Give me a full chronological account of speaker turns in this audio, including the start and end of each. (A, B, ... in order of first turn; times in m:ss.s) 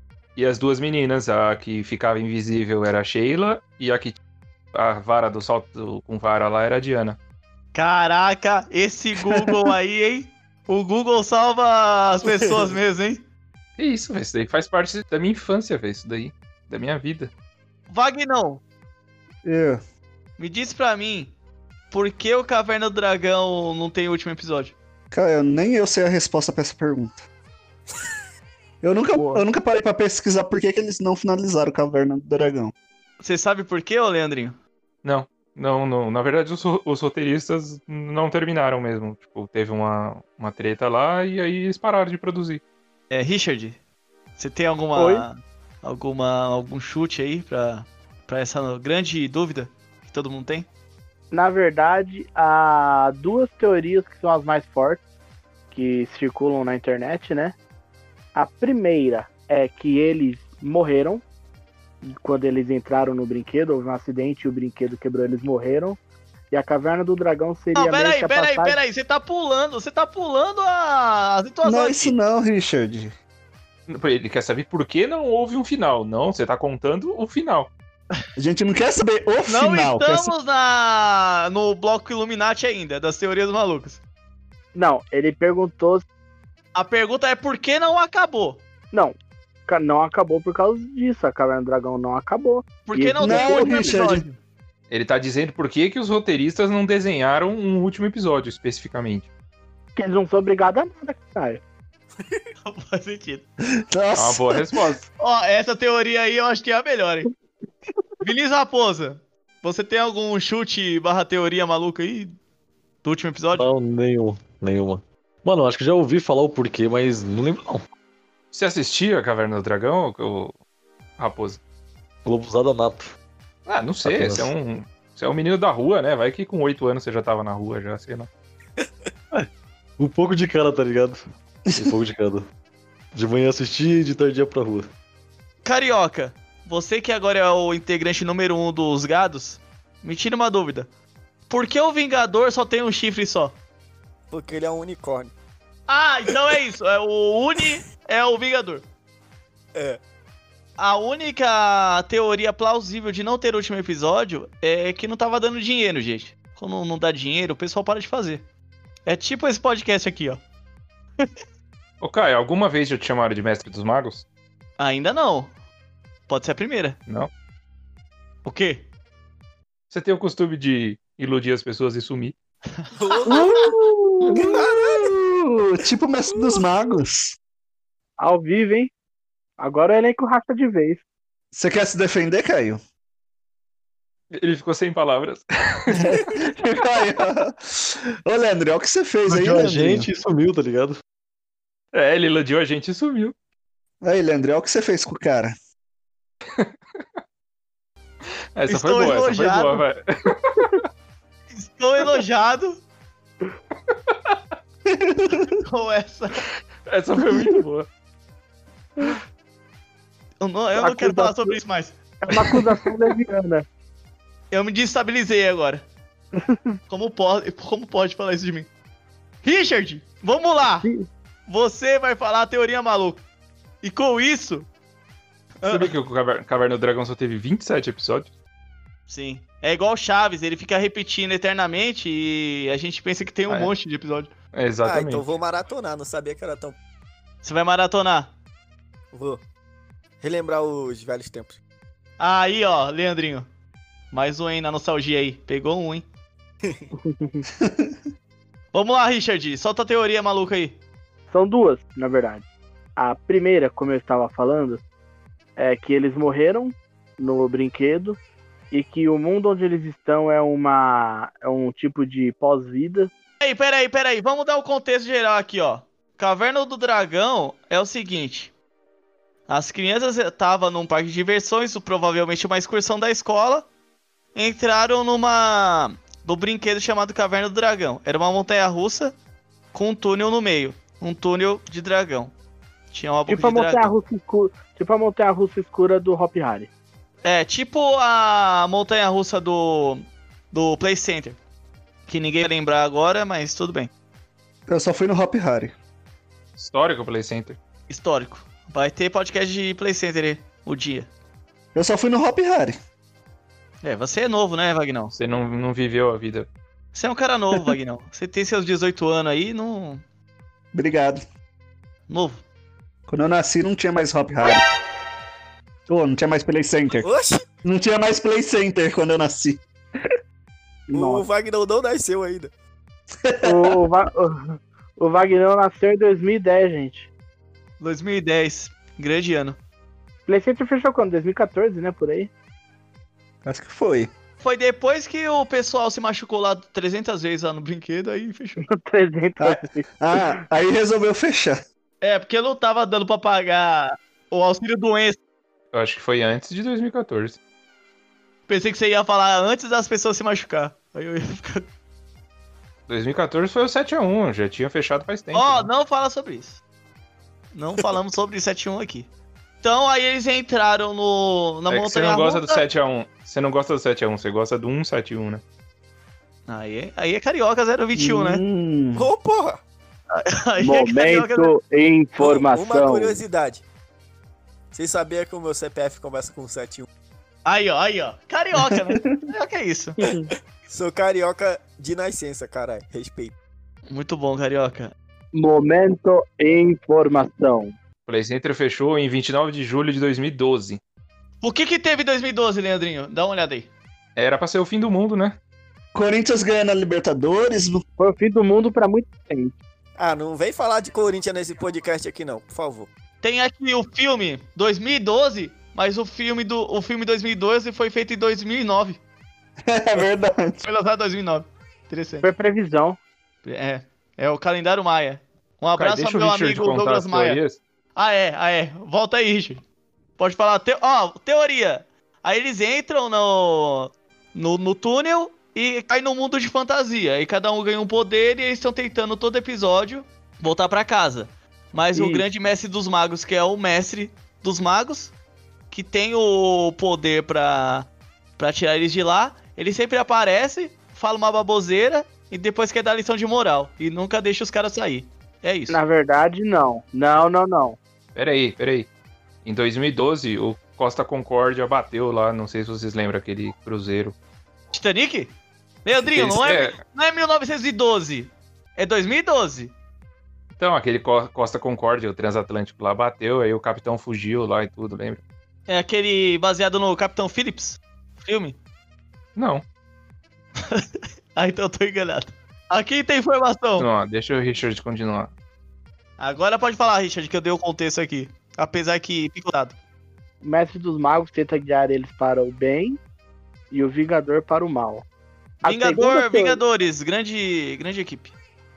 0:00.4-0:04.2 A
0:04.7-0:07.2 A
0:07.7-0:13.2 B
0:12.2-0:12.8 C
0:13.8-0:17.3 A
0:17.9-0:18.6 B
0:19.4-0:19.8 D
0:20.4-0:21.3 B
0:21.9-0:24.8 B
0:25.1-0:27.2 D
0:28.8-0:32.7 D
0:29.2-0:29.4 E
0:33.2-0:34.6 B
0:35.0-0:42.6 A
0:43.1-0:43.8 B
0:44.4-0:50.7 B
0:45.0-0:45.3 E
0:51.3-0:55.0 E
0:55.7-0:57.6 E
0:58.4-1:01.2 E
1:02.0-1:06.0 E
1:06.5-1:08.8 E
1:07.8-1:12.1 B
1:11.6-1:13.1 D
1:13.9-1:17.7 A
1:18.4-1:20.3 D
1:19.5-1:24.0 B
1:24.8-1:26.1 E
1:26.8-1:28.6 B
1:29.7-1:33.9 E
1:32.9-1:34.4 B
1:33.2-1:34.2 D
1:34.9-1:39.3 A
1:40.0-1:41.6 E
1:42.6-1:43.4 B
1:43.9-1:44.8 D
1:44.2-1:45.0 A
1:45.2-1:47.3 B
1:48.2-1:52.4 B
1:53.0-1:53.7 B
1:53.5-1:57.8 F
1:58.5-2:00.6 A
2:01.2-2:01.6 A
2:02.2-2:03.2 F
2:03.7-2:08.3 A
2:04.0-2:04.5 F
2:09.3-2:11.2 F
2:11.7-2:11.9 D
2:11.8-2:12.4 F
2:13.2-2:14.9 F
2:15.6-2:20.9 B
2:21.5-2:23.6 B
2:24.3-2:25.3 C
2:25.9-2:28.8 B
2:29.8-2:30.0 C
2:30.8-2:38.4 B
2:39.1-2:40.4 B
2:42.0-2:44.2 A
2:44.8-2:45.5 B
2:46.3-2:47.0 B
2:48.4-2:48.9 B
2:49.9-2:52.4 A
2:53.0-2:53.7 C
2:53.3-2:57.4 D
2:54.3-2:55.1 C
2:58.2-2:58.9 E
2:59.6-3:01.0 E
3:01.5-3:02.8 D
3:04.3-3:06.4 A
3:05.9-3:10.1 D
3:09.3-3:11.0 F
3:11.9-3:13.3 A
3:14.0-3:15.5 D
3:18.6-3:20.8 A
3:18.7-3:19.8 B
3:21.5-3:22.8 B
3:23.9-3:24.4 A
3:24.9-3:25.6 D
3:25.6-3:26.4 B
3:26.9-3:27.9 A
3:30.4-3:32.0 B
3:30.8-3:31.6 E
3:32.2-3:33.6 E
3:34.5-3:35.8 B
3:36.9-3:38.7 B
3:39.4-3:40.9 B
3:41.5-3:43.2 B
3:43.8-3:44.7 B
3:45.6-3:45.9 B
3:45.6-3:48.3 A
3:49.1-3:54.3 B
3:54.5-3:55.3 A
3:54.8-3:56.8 C
3:57.4-3:58.3 B
3:59.1-3:59.4 C
4:00.2-4:01.6 C
4:02.2-4:03.5 B
4:04.1-4:06.0 B
4:07.0-4:07.4 E
4:07.6-4:08.0 D
4:08.7-4:10.8 B
4:11.3-4:12.4 E
4:13.0-4:14.8 E
4:15.6-4:18.2 E
4:18.7-4:23.1 E
4:23.4-4:28.5 B
4:29.5-4:33.7 B
4:34.4-4:39.2 B
4:39.7-4:42.3 B
4:42.9-4:43.9 B
4:43.3-4:46.7 E
4:47.2-4:51.4 B
4:52.1-4:53.9 B
4:54.7-4:55.7 D
4:56.6-4:57.6 A
4:57.9-5:01.1 B
5:01.7-5:02.8 D
5:03.8-5:05.1 B
5:05.1-5:06.5 A
5:06.9-5:10.0 B
5:10.7-5:11.2 D
5:12.1-5:12.4 B
5:13.1-5:14.6 D
5:15.9-5:17.1 D
5:17.0-5:17.4 C
5:17.6-5:19.6 D
5:20.9-5:21.2 E
5:20.9-5:22.5 C
5:23.2-5:23.8 D
5:23.4-5:27.1 E
5:27.8-5:29.6 B
5:30.3-5:32.3 E
5:33.4-5:34.1 D
5:34.4-5:38.6 B
5:38.7-5:40.3 E
5:39.4-5:41.6 D
5:42.0-5:45.2 B
5:45.7-5:47.4 A
5:48.5-5:51.7 B
5:52.9-5:55.7 A
5:55.3-5:56.6 B
5:57.5-5:59.1 B
5:59.6-6:02.6 B
6:01.7-6:05.4 A
6:06.5-6:08.4 B
6:08.0-6:09.1 D
6:09.0-6:09.6 C
6:10.1-6:11.5 B
6:10.6-6:13.2 E
6:12.2-6:13.6 C
6:14.7-6:16.9 C
6:17.5-6:20.0 B
6:18.7-6:19.1 D
6:20.0-6:20.3 E
6:20.7-6:23.4 C
6:23.9-6:24.9 B
6:25.3-6:27.8 E
6:28.1-6:30.8 A
6:31.4-6:33.7 B
6:34.2-6:35.4 A
6:35.9-6:37.8 D
6:38.0-6:39.6 E
6:40.0-6:42.9 C
6:43.2-6:49.0 B
6:49.7-6:50.6 D
6:50.6-6:52.3 B
6:52.2-6:53.0 E
6:53.4-6:57.4 B
6:55.8-6:57.6 A
6:58.0-6:59.6 B
7:00.2-7:15.1 B
7:11.9-7:12.2 E
7:15.7-7:25.8 B
7:25.7-7:27.8 E
7:28.2-7:28.9 A
7:29.4-7:34.2 A
7:34.7-7:35.3 B
7:35.8-7:39.7 B
7:36.1-7:36.8 A
7:40.5-7:45.2 A
7:45.7-7:48.6 B
7:49.4-7:49.6 A
7:50.6-7:53.9 B
7:53.8-7:55.3 A
7:56.2-7:59.8 B
8:00.4-8:03.0 E
8:03.7-8:05.0 E
8:05.6-8:06.6 E
8:05.6-8:08.3 B